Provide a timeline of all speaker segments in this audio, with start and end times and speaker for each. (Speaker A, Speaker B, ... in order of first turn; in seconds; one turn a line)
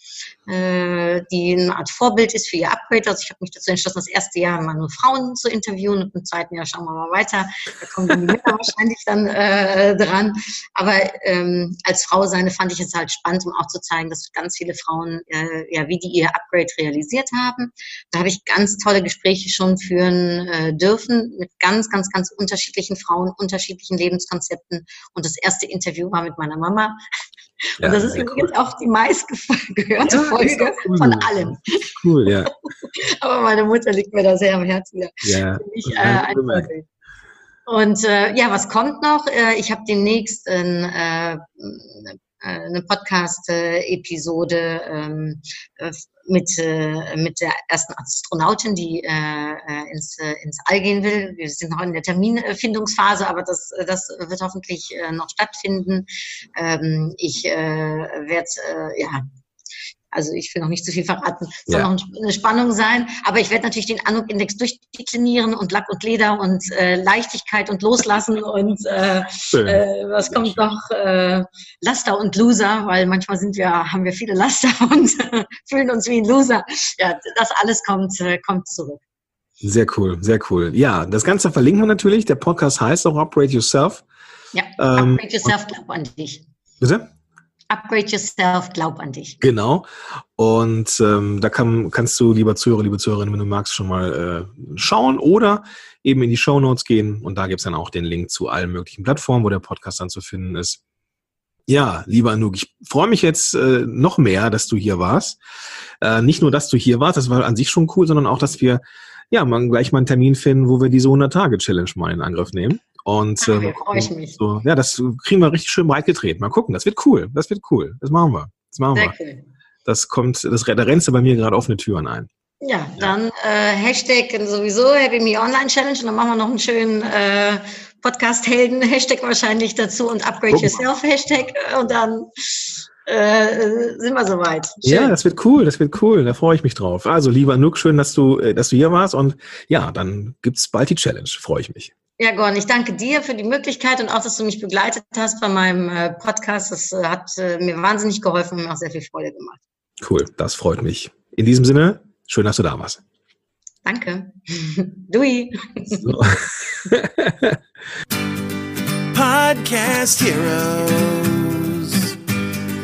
Speaker A: 0.5-27.0
Speaker A: 27.6-36.8
Speaker B: 27.8-28.5
Speaker B: 30.0-32.5
Speaker B: 35.2-36.7
Speaker A: 37.7-59.2
Speaker A: 60.1-79.0
Speaker B: 69.5-70.6
Speaker B: 79.6-84.0
Speaker A: 84.5-86.4
Speaker B: 84.8-85.5
Speaker B: 86.8-87.1
Speaker A: 87.7-89.4
Speaker B: 89.4-100.8
Speaker B: 101.7-105.4
Speaker B: 106.0-119.1
Speaker A: 113.4-114.4
Speaker A: 118.9-119.4
Speaker B: 119.8-122.3
Speaker A: 122.6-135.2
Speaker B: 130.5-130.8
Speaker B: 134.8-141.9
Speaker A: 142.2-149.6
Speaker B: 150.0-153.0
Speaker A: 153.8-156.2
Speaker B: 155.9-157.6
Speaker C: 159.1-162.2